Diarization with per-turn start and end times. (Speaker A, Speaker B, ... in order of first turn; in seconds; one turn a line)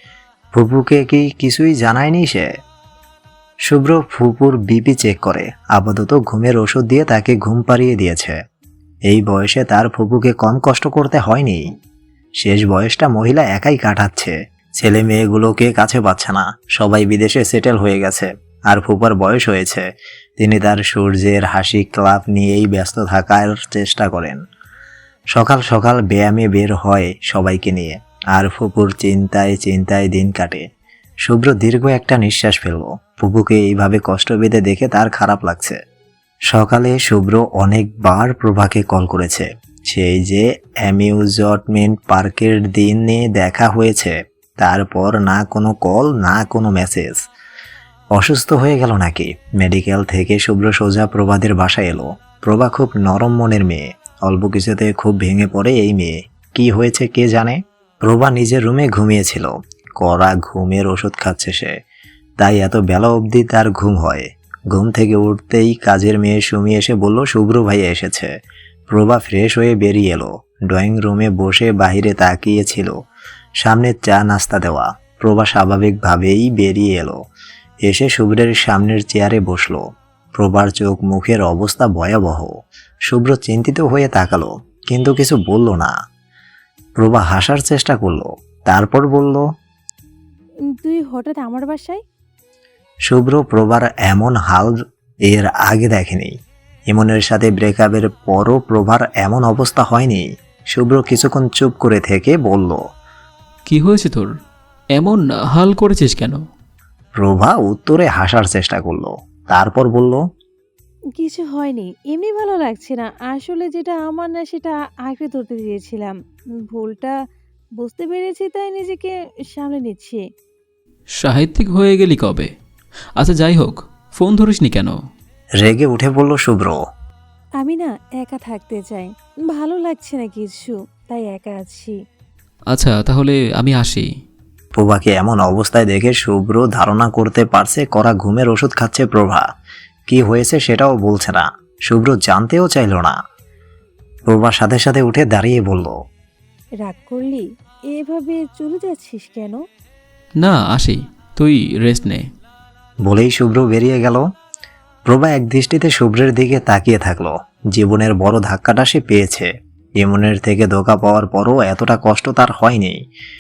Speaker A: 0.6-2.5
Speaker A: 3.7-8.3
Speaker A: 9.1-11.7
Speaker A: 12.4-19.8
Speaker A: 20.4-24.4
Speaker A: 25.4-30.6
Speaker A: 31.3-35.8
Speaker A: 36.5-47.2
Speaker A: 48.2-61.7
Speaker A: 62.4-68.3
Speaker A: 68.9-72.9
Speaker A: 73.6-77.2
Speaker A: 77.9-79.8
Speaker A: 80.4-82.5
Speaker A: 83.1-85.9
Speaker A: 87.0-89.4
Speaker B: 90.8-92.0
Speaker A: 93.1-94.7
Speaker A: 95.3-96.3
Speaker A: 96.9-102.8
Speaker C: 103.7-104.3
Speaker C: 105.0-106.4
Speaker A: 107.2-110.2
Speaker B: 111.2-116.1
Speaker B: 116.7-117.2
Speaker B: 117.8-120.2
Speaker C: 121.2-122.5
Speaker C: 123.2-125.0
Speaker A: 125.6-126.8
Speaker B: 127.6-131.9
Speaker C: 132.7-134.1
Speaker A: 134.8-139.4
Speaker A: 140.1-143.1
Speaker A: 144.3-145.9
Speaker B: 146.9-147.4
Speaker B: 147.9-149.6
Speaker C: 150.4-152.2
Speaker A: 153.1-154.2
Speaker A: 155.1-159.5
Speaker A: 160.0-163.0